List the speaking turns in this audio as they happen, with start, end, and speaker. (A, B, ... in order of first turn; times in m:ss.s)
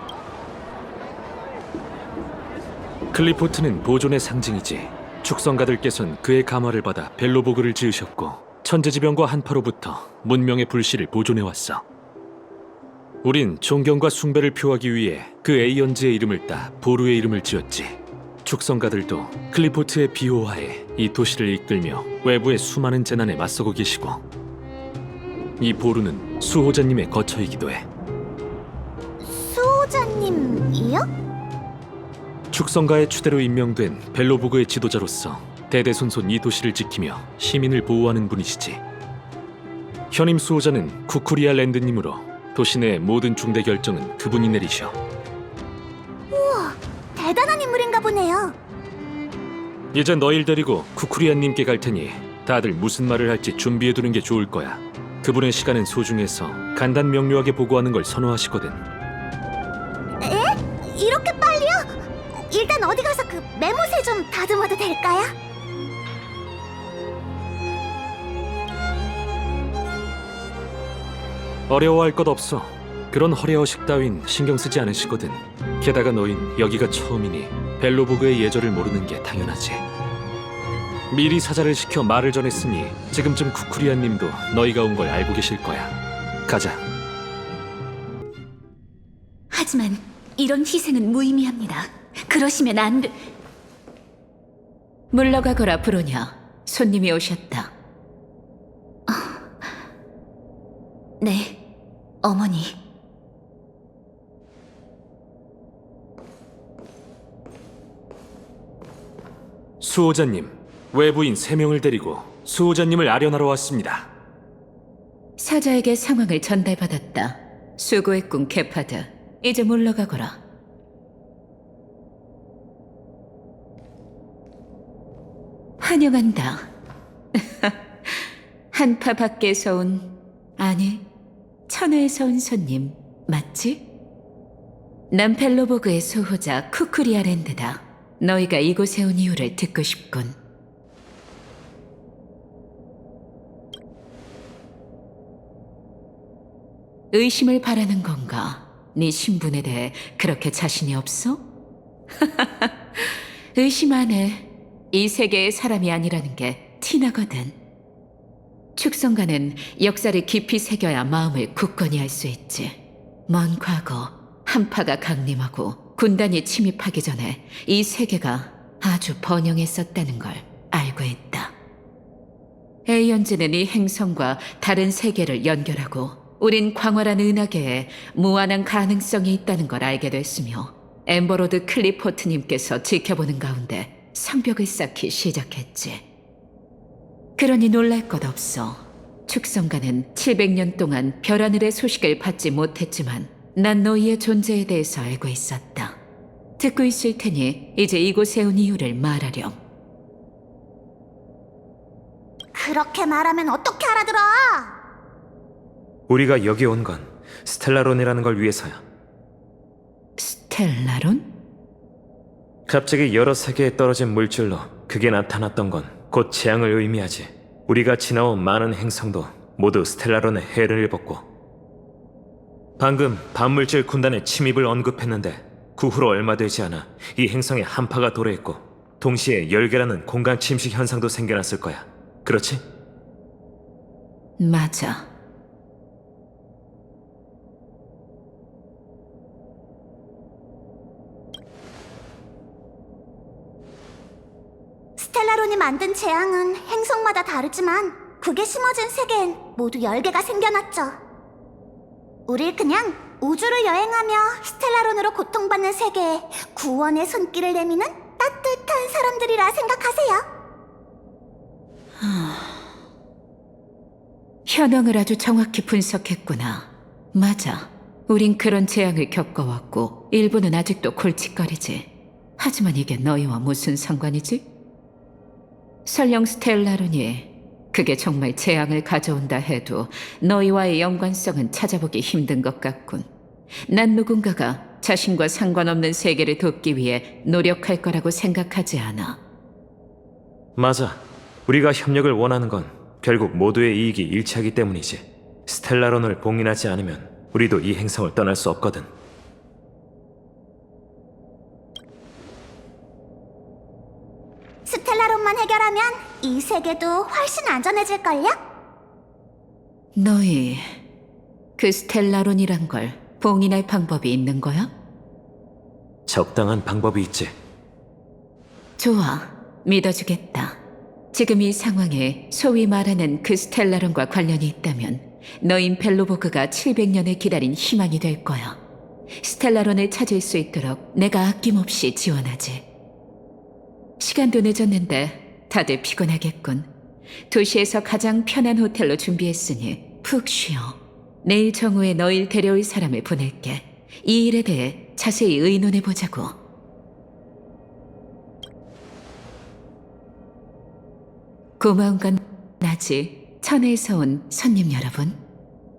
0:03.1-0:11.8 A
0:13.2-0:24.2 A
0:25.6-0:27.9 A
0:29.2-0:31.1 B
0:32.5-0:38.8 A
0:40.1-0:45.0 A
0:46.3-0:48.6 B
0:49.9-0:58.8 A
1:00.2-1:05.3 B
1:11.7-1:19.8 A
1:21.1-1:25.9 A
1:26.5-1:26.8 A
1:29.5-1:33.2 C
1:35.1-1:37.7 C
1:39.1-1:39.7 C
1:41.2-1:41.6 C
1:42.2-1:42.8 C
1:49.8-1:54.1 A
1:55.4-2:00.4 C
2:05.8-2:06.7 C
2:07.4-2:11.1 C
2:11.7-2:13.9 C
2:15.1-2:20.4 C
2:27.1-2:31.4 C
2:32.2-2:37.6 C
2:38.8-2:51.5 C
2:52.9-3:06.0 C
3:07.4-3:16.0 C
3:16.6-3:19.6 C
3:22.5-3:24.8 B
3:26.1-3:28.8 D
3:30.2-3:31.3 C
3:32.7-3:41.2 D
3:42.8-3:52.6 D
3:54.4-3:55.1 C
4:05.0-4:11.0 B
4:12.3-4:20.2 B
4:22.0-4:22.7 C
4:24.5-4:34.5 C
4:35.9-4:43.1 C
4:43.6-4:49.2 C
4:50.6-4:58.9 D
5:04.7-5:08.4 B
5:10.0-5:10.8 C
5:11.6-5:14.7 C
5:16.1-5:17.3 D
5:18.8-5:20.6 C
5:21.1-5:28.6 C
5:29.2-5:32.7 C
5:34.0-5:36.7 C
5:37.3-5:46.4 C
5:51.6-5:55.2 C